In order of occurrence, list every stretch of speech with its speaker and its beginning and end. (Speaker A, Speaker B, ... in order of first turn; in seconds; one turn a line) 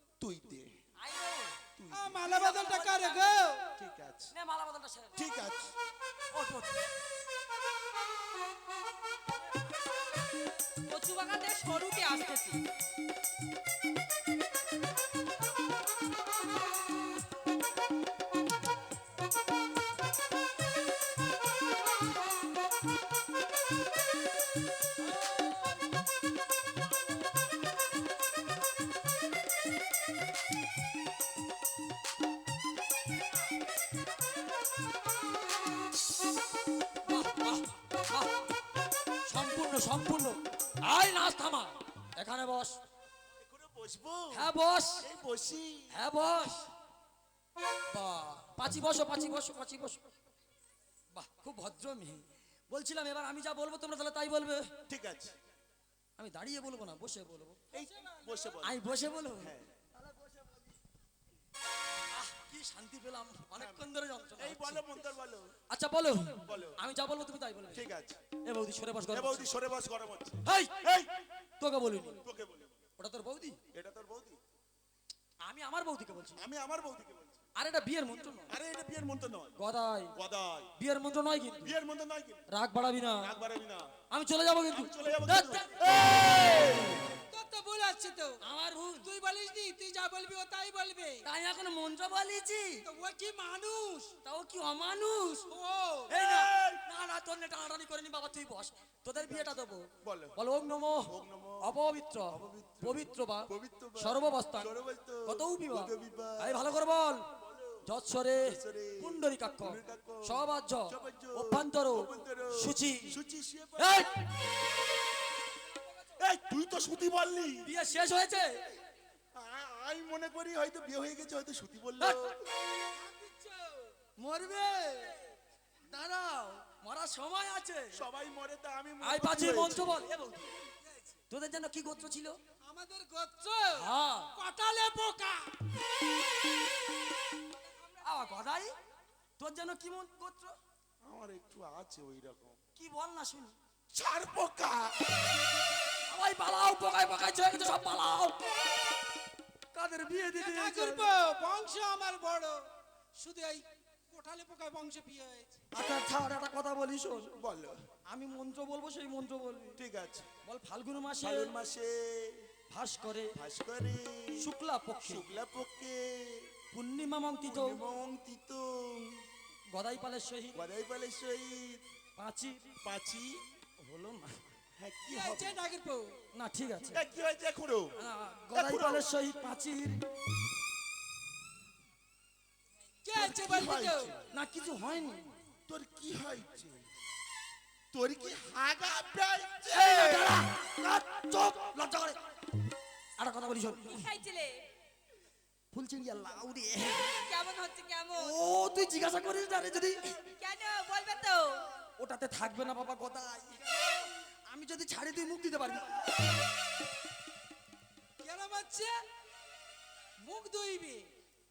Speaker A: 0.2-0.8
Speaker B: 1.0-1.6
Speaker A: 1.8-2.2
Speaker C: 1.9-3.7
Speaker B: 2.3-3.5
Speaker A: 3.8-4.3
Speaker B: 4.3-5.2
Speaker A: 5.2-5.7
Speaker B: 6.3-6.8
Speaker D: 10.9-12.6
Speaker B: 37.1-38.5
Speaker B: 39.3-42.8
Speaker A: 43.4-44.5
Speaker B: 44.3-45.0
Speaker A: 45.0-45.9
Speaker B: 45.9-46.7
Speaker B: 47.9-50.0
Speaker B: 51.1-54.7
Speaker A: 54.9-55.4
Speaker B: 56.2-57.6
Speaker A: 57.7-58.8
Speaker C: 57.7-58.5
Speaker B: 58.6-60.1
Speaker A: 59.4-59.7
Speaker B: 62.1-64.9
Speaker A: 63.6-63.9
Speaker A: 64.4-65.5
Speaker B: 65.7-69.5
Speaker A: 66.5-66.8
Speaker A: 67.7-68.2
Speaker A: 69.1-71.1
Speaker B: 70.5-71.0
Speaker B: 71.6-72.2
Speaker A: 72.2-72.7
Speaker B: 73.0-73.6
Speaker A: 73.7-74.4
Speaker B: 75.4-76.4
Speaker A: 76.4-77.4
Speaker B: 77.6-78.5
Speaker A: 78.5-79.6
Speaker B: 79.6-80.1
Speaker A: 80.2-80.7
Speaker B: 80.8-81.8
Speaker A: 81.6-82.4
Speaker B: 82.5-83.3
Speaker A: 83.2-83.9
Speaker B: 84.1-87.0
Speaker A: 84.7-87.1
Speaker C: 87.2-88.4
Speaker B: 88.4-89.1
Speaker C: 89.0-91.3
Speaker B: 91.2-92.9
Speaker C: 92.8-94.2
Speaker B: 94.2-95.5
Speaker C: 95.5-96.2
Speaker B: 96.1-107.3
Speaker A: 96.2-96.8
Speaker A: 99.2-100.4
Speaker A: 101.1-101.8
Speaker A: 102.3-106.7
Speaker A: 107.4-107.8
Speaker B: 107.8-113.2
Speaker A: 108.4-114.0
Speaker B: 113.8-114.3
Speaker A: 116.2-117.7
Speaker B: 117.6-118.6
Speaker A: 119.3-122.3
Speaker B: 122.0-122.4
Speaker C: 122.9-123.9
Speaker B: 124.2-125.2
Speaker B: 125.9-128.0
Speaker A: 127.9-130.0
Speaker B: 129.0-130.5
Speaker C: 130.8-131.2
Speaker B: 131.3-132.4
Speaker C: 132.6-135.5
Speaker B: 133.7-134.3
Speaker C: 137.7-138.4
Speaker B: 138.0-138.7
Speaker B: 139.4-140.6
Speaker A: 141.0-142.6
Speaker B: 142.8-143.5
Speaker A: 143.9-145.1
Speaker B: 146.1-148.5
Speaker B: 149.7-151.1
Speaker C: 150.3-152.6
Speaker C: 153.2-155.6
Speaker B: 155.7-157.3
Speaker A: 157.4-157.8
Speaker B: 158.1-159.8
Speaker A: 159.8-160.3
Speaker B: 160.4-161.5
Speaker A: 161.2-162.5
Speaker B: 162.7-163.3
Speaker A: 163.3-164.5
Speaker B: 164.4-165.3
Speaker A: 165.0-166.5
Speaker B: 166.7-167.8
Speaker A: 167.4-169.2
Speaker B: 169.7-170.6
Speaker A: 170.6-171.8
Speaker B: 172.2-172.7
Speaker A: 172.8-173.4
Speaker B: 173.8-174.4
Speaker A: 174.8-175.6
Speaker C: 175.1-176.2
Speaker B: 176.3-177.1
Speaker A: 176.9-178.0
Speaker B: 178.0-180.0
Speaker A: 178.5-179.1
Speaker C: 183.0-184.2
Speaker A: 183.2-184.2
Speaker B: 184.2-185.3
Speaker A: 185.7-186.9
Speaker A: 187.9-190.4
Speaker B: 189.7-192.2
Speaker B: 193.2-194.1
Speaker D: 193.8-194.6
Speaker B: 195.7-197.2
Speaker D: 197.2-198.2
Speaker B: 198.1-200.2
Speaker D: 200.4-201.7
Speaker B: 202.0-206.0
Speaker C: 208.2-208.9
Speaker C: 210.2-211.1